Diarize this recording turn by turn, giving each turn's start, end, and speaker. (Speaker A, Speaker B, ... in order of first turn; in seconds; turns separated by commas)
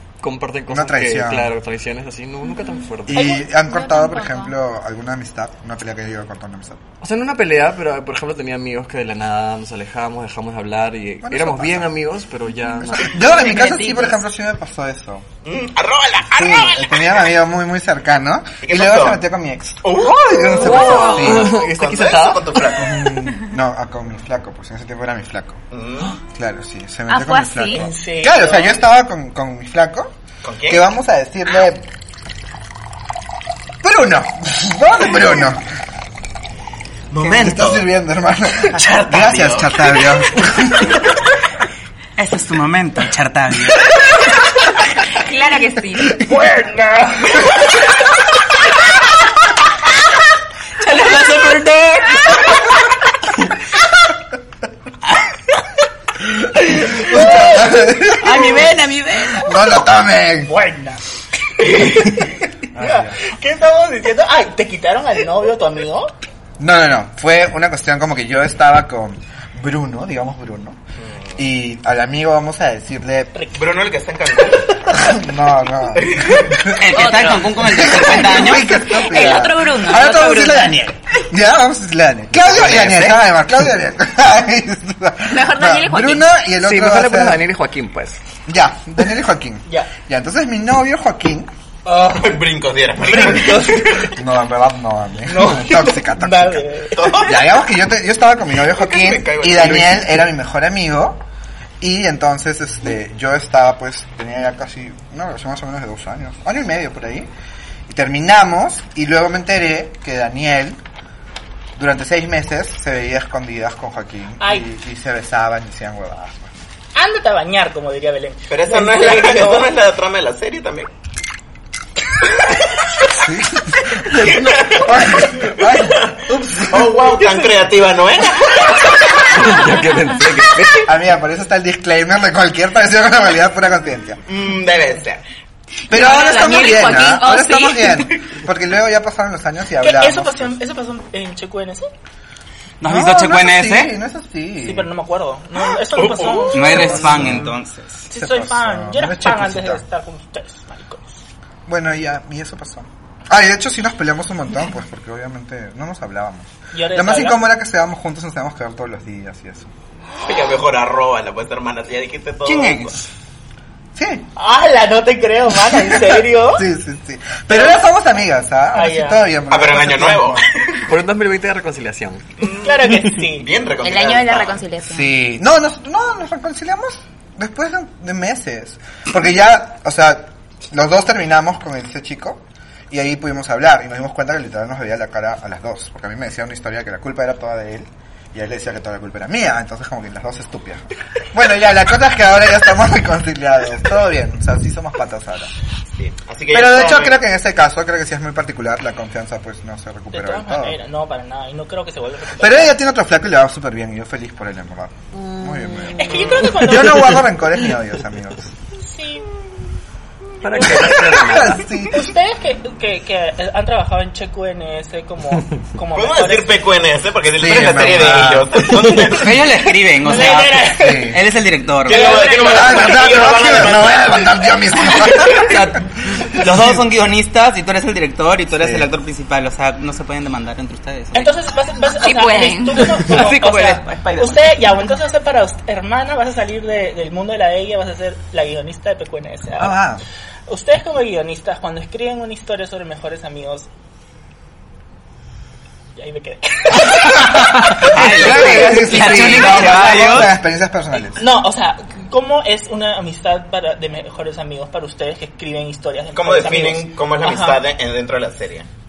Speaker A: 0.2-3.4, Speaker B: 0.7-1.5, Speaker C: 2.6-4.5, Speaker B: 3.1-6.8, Speaker A: 7.0-13.3, Speaker B: 11.2-11.9, Speaker B: 12.8-15.3, Speaker C: 13.4-14.2, Speaker D: 15.4-17.3, Speaker B: 16.4-21.6, Speaker D: 18.6-19.2, Speaker D: 19.8-23.1, Speaker A: 20.5-22.7, Speaker B: 22.8-25.6, Speaker D: 25.7-26.2, Speaker B: 26.3-30.1, Speaker C: 27.1-27.9, Speaker E: 27.7-28.8, Speaker D: 30.4-30.8, Speaker B: 30.7-31.9, Speaker B: 33.8-35.6, Speaker D: 37.1-37.9, Speaker B: 37.2-41.0, Speaker D: 38.6-40.1, Speaker F: 42.2-43.9, Speaker C: 45.1-46.2, Speaker E: 46.3-47.2, Speaker F: 50.8-52.6, Speaker B: 56.7-58.7, Speaker E: 57.1-57.5, Speaker F: 58.2-59.5, Speaker B: 59.3-60.5, Speaker E: 60.5-61.0, Speaker E: 61.6-66.1, Speaker B: 62.7-63.2, Speaker B: 66.6-70.8, Speaker B: 71.4-73.3, Speaker E: 73.3-73.6, Speaker D: 73.5-74.9, Speaker B: 74.9-77.0, Speaker D: 76.0-76.8, Speaker F: 76.8-78.7, Speaker C: 77.0-77.4, Speaker B: 77.6-87.4, Speaker C: 78.2-80.9, Speaker C: 85.3-86.3, Speaker A: 86.6-88.2, Speaker B: 88.5-91.5, Speaker E: 91.9-92.4, Speaker D: 92.1-94.1, Speaker E: 93.0-94.1, Speaker B: 94.2-96.7, Speaker E: 95.3-97.2, Speaker D: 97.0-97.6, Speaker B: 97.2-101.2, Speaker D: 98.6-100.0, Speaker B: 101.8-107.3, Speaker B: 107.9-110.8, Speaker B: 111.8-116.5, Speaker E: 114.4-114.7, Speaker E: 117.0-119.7, Speaker D: 118.5-120.9, Speaker B: 123.2-127.1, Speaker D: 124.1-129.6, Speaker A: 129.3-130.9, Speaker B: 130.8-134.2, Speaker D: 134.3-135.2, Speaker C: 135.9-138.1, Speaker B: 135.9-140.6, Speaker E: 139.8-141.9, Speaker F: 142.8-143.9, Speaker B: 142.8-144.9, Speaker E: 144.6-147.2, Speaker D: 145.9-146.9, Speaker F: 146.5-148.1, Speaker B: 146.7-147.6, Speaker E: 148.1-151.2, Speaker B: 148.1-149.8, Speaker B: 151.7-159.7, Speaker E: 156.7-157.4, Speaker D: 160.2-162.9, Speaker F: 162.4-163.0, Speaker B: 163.9-164.3, Speaker E: 164.4-166.7, Speaker B: 165.9-170.4, Speaker E: 168.7-169.2, Speaker D: 169.5-170.8, Speaker A: 170.9-172.2, Speaker E: 172.5-173.5, Speaker D: 173.3-174.6, Speaker C: 173.8-175.2, Speaker B: 174.9-195.5, Speaker D: 195.9-197.2, Speaker B: 196.5-200.8, Speaker E: 200.1-202.8, Speaker B: 202.4-208.5, Speaker E: 206.0-207.2, Speaker E: 208.8-209.3, Speaker A: 210.4-211.7, Speaker E: 210.6-211.0, Speaker B: 210.6-212.1, Speaker E: 211.8-216.6, Speaker D: 215.9-219.3, Speaker B: 217.3-219.0, Speaker F: 219.1-222.1, Speaker E: 220.0-221.2, Speaker B: 220.8-221.2, Speaker D: 221.8-224.3, Speaker E: 221.9-223.2, Speaker B: 222.4-225.6, Speaker F: 225.3-231.3, Speaker B: 226.4-226.7, Speaker B: 228.6-228.9, Speaker E: 231.1-239.8, Speaker C: 232.0-233.0, Speaker F: 233.0-234.6, Speaker B: 239.6-240.0, Speaker E: 240.5-243.7, Speaker E: 246.0-248.9, Speaker F: 247.6-250.4, Speaker B: 247.8-251.2, Speaker E: 251.1-257.6, Speaker D: 256.1-258.7